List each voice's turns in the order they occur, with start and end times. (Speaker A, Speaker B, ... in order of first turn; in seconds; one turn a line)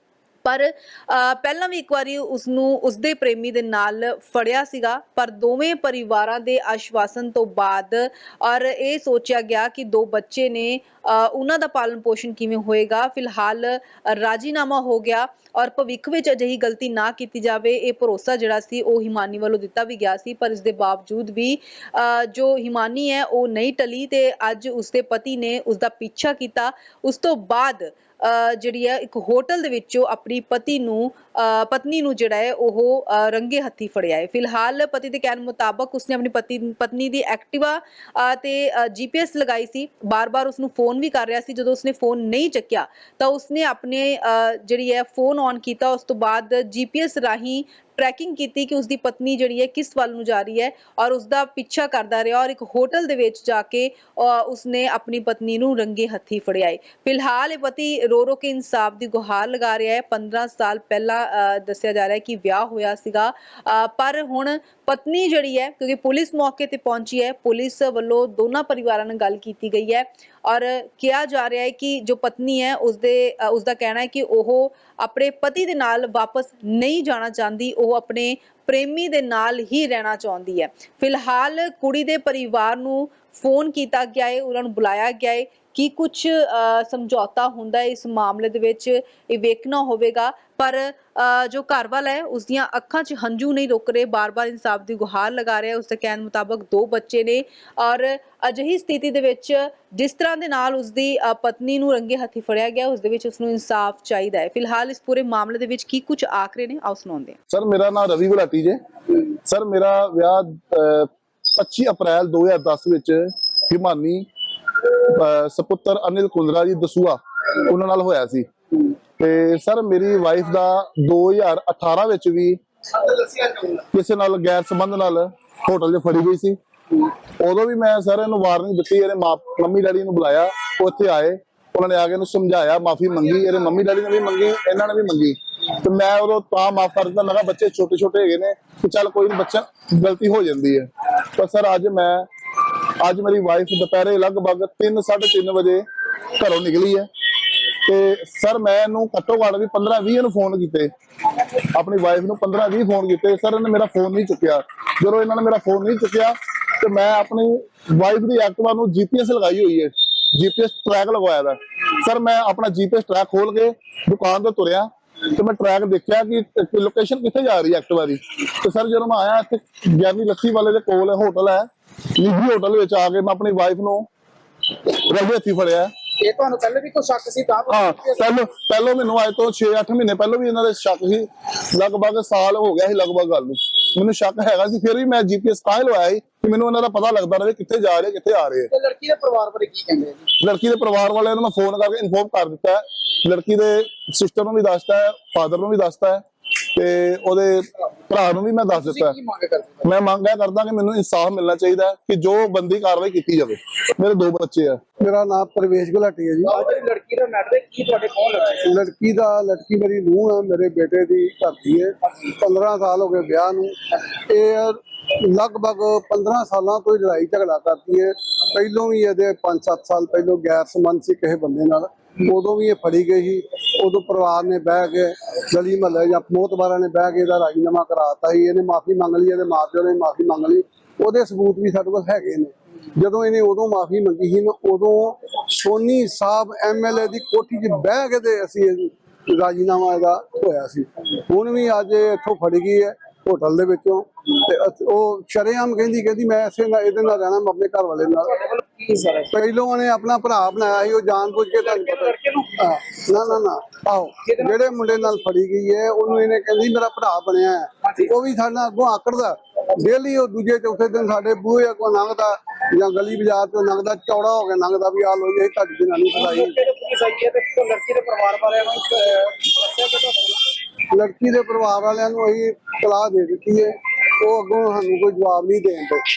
Speaker A: 0.4-107.3
Speaker B: 107.5-114.3
Speaker B: 114.9-142.3
Speaker B: 143.0-150.9
Speaker B: 151.7-174.1
Speaker B: 174.8-175.9
Speaker C: 176.2-178.2
Speaker B: 177.7-188.7
Speaker C: 188.7-190.3
Speaker B: 190.4-196.2
Speaker B: 196.7-199.2
Speaker C: 198.8-199.8
Speaker B: 199.8-204.8
Speaker D: 205.0-206.6
Speaker C: 206.5-208.7
Speaker D: 208.6-248.4
Speaker C: 248.4-249.3
Speaker D: 249.3-266.6
Speaker C: 251.5-252.5
Speaker C: 254.2-255.1
Speaker C: 266.1-270.4
Speaker D: 270.9-276.0